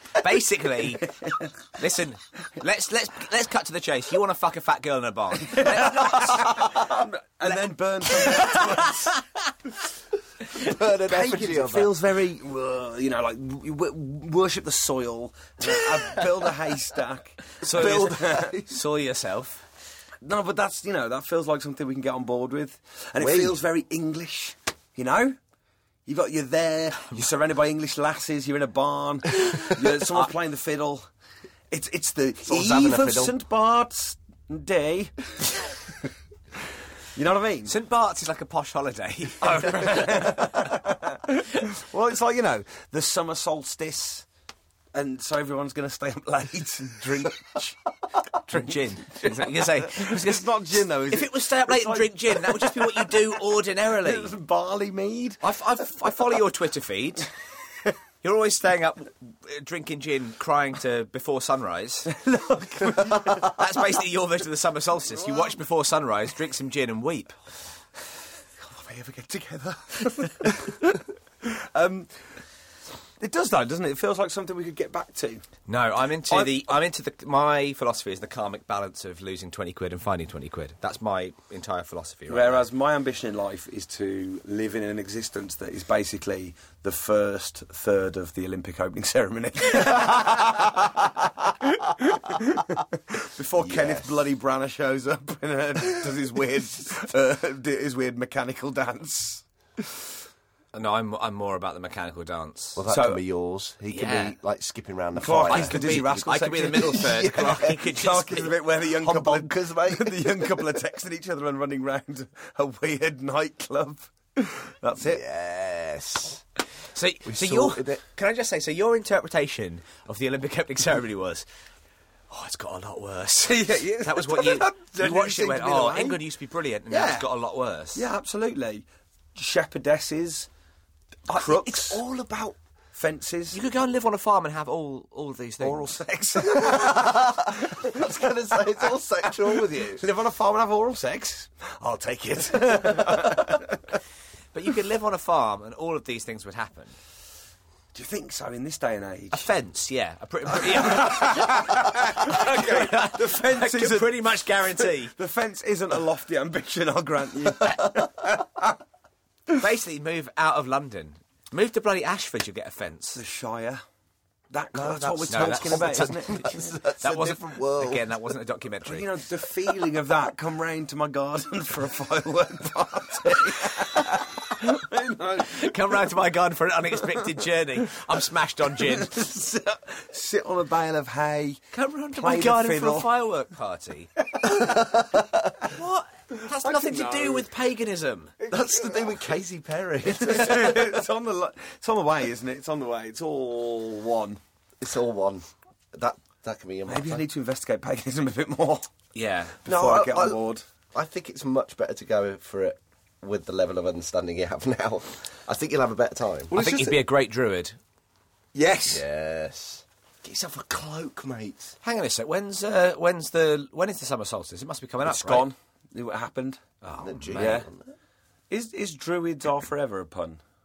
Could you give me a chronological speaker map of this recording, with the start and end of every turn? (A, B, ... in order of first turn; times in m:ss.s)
0:00.1-0:01.1 A
0:01.0-0:01.5 B
0:01.8-0:06.9 A
0:05.4-0:09.2 B
0:08.2-0:09.2 A
0:10.5-0:11.9 C
0:11.0-0:18.6 B
0:15.9-0:16.4 A
0:17.6-0:19.6 A
0:17.7-0:18.7 C
0:20.2-0:25.4 B
0:23.2-0:23.6 C
0:26.1-0:31.1 B
0:31.7-0:35.6 B
0:32.4-0:33.4 C
0:37.2-0:37.8 B
0:37.7-0:40.8 A
0:39.4-0:44.3 B
0:44.9-0:47.8 B
0:48.5-0:54.3 A
0:49.0-0:53.4 B
0:54.0-0:55.4 B
0:55.4-0:57.3 A
0:58.2-1:02.1 A
1:02.1-1:03.5 B
1:02.9-1:07.4 A
1:05.2-1:05.5 B
1:08.6-1:12.1 B
1:13.2-1:15.5 B
1:15.7-1:22.6 A
1:16.3-1:16.7 B
1:22.3-1:39.4 B
1:33.6-1:34.2 C
1:40.7-1:42.8 A
1:42.8-1:47.8 C
1:42.9-1:43.2 B
1:43.9-1:44.4 A
1:45.2-1:47.1 B
1:45.5-1:48.6 A
1:47.9-1:55.2 B
1:49.0-1:50.6 C
1:55.0-1:56.4 C
1:56.9-2:01.4 A
1:57.2-1:58.0 C
2:02.3-2:08.0 A
2:03.4-2:06.2 B
2:06.9-2:07.3 B
2:08.0-2:10.5 B
2:11.3-2:12.0 B
2:11.3-2:12.2 A
2:12.9-2:13.6 B
2:13.5-2:15.9 A
2:15.6-2:18.0 B
2:16.4-2:20.0 C
2:19.6-2:23.8 B
2:24.5-2:27.0 A
2:27.9-2:29.5 B
2:29.3-2:35.1 A
2:30.6-2:34.2 B
2:34.8-2:38.8 B
2:39.5-2:43.2 A
2:43.1-2:43.8 B
2:44.5-2:46.7 B
2:44.7-2:48.1 C
2:45.3-2:49.1 A
2:48.9-2:55.8 B
2:55.4-2:59.3 A
2:58.8-3:03.1 B
3:01.7-3:04.1 A
3:04.3-3:04.9 B
3:04.4-3:05.5 C
3:05.7-3:08.3 A
3:06.3-3:07.5 B
3:08.4-3:09.3 B
3:08.5-3:11.0 C
3:10.0-3:14.4 B
3:14.8-3:17.2 C
3:16.9-3:18.9 B
3:19.1-3:19.6 A
3:19.6-3:20.6 B
3:19.7-3:20.4 C
3:20.9-3:26.5 C
3:26.5-3:27.0 B
3:26.5-3:27.8 A
3:28.6-3:29.0 B
3:28.9-3:31.8 C
3:31.8-3:35.5 A
3:35.0-3:36.6 B
3:36.8-3:37.6 A
3:37.0-3:37.8 C
3:37.3-3:37.7 B
3:38.5-3:40.4 B